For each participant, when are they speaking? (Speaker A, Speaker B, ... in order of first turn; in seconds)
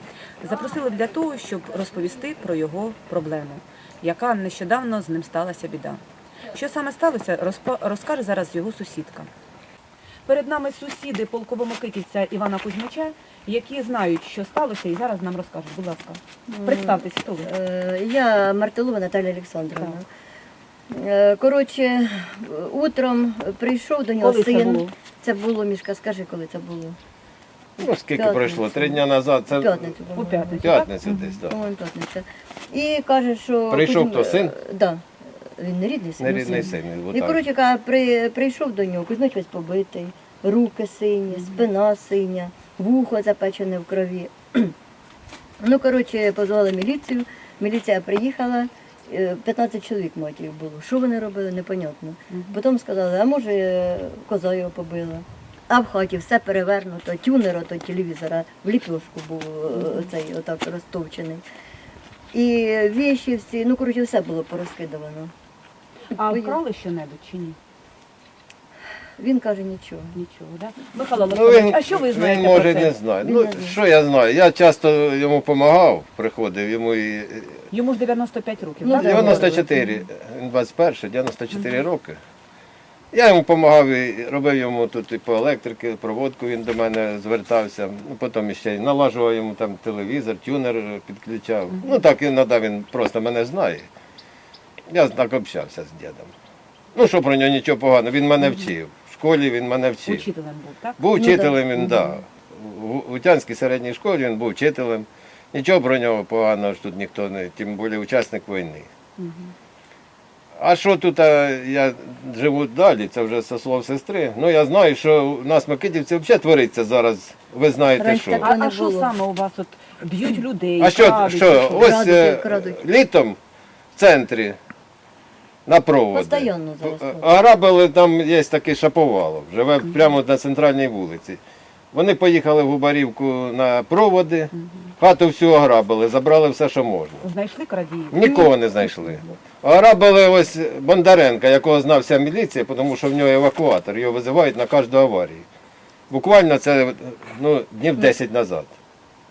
Speaker A: 0.4-9.3, 10.2-17.5, 24.2-24.9, 30.1-31.3, 41.3-41.6, 52.3-52.6, 59.7-60.0, 66.1-67.6, 70.1-72.9, 77.7-79.6, 100.0-102.2, 109.2-109.5, 118.4-121.9, 137.2-138.9
Speaker B: 16.5-20.1, 20.9-27.0, 27.8-30.9, 31.4-35.0, 35.6-44.7, 45.6-61.4, 62.3-65.3, 66.2-66.6, 69.2-70.2, 73.2-73.8, 78.8-79.7, 117.9-119.1, 121.7-122.8, 126.1-127.3
Speaker C: 27.8-30.0, 30.6-31.6, 33.7-34.5, 36.2-37.4, 71.3-77.6, 79.0-82.2, 83.1-93.9, 94.9-96.3, 96.9-100.2, 101.0-108.9, 110.6-118.5, 120.8-123.4, 124.0-124.6, 125.7-131.4, 131.9-137.2, 138.1-145.4, 146.1-148.7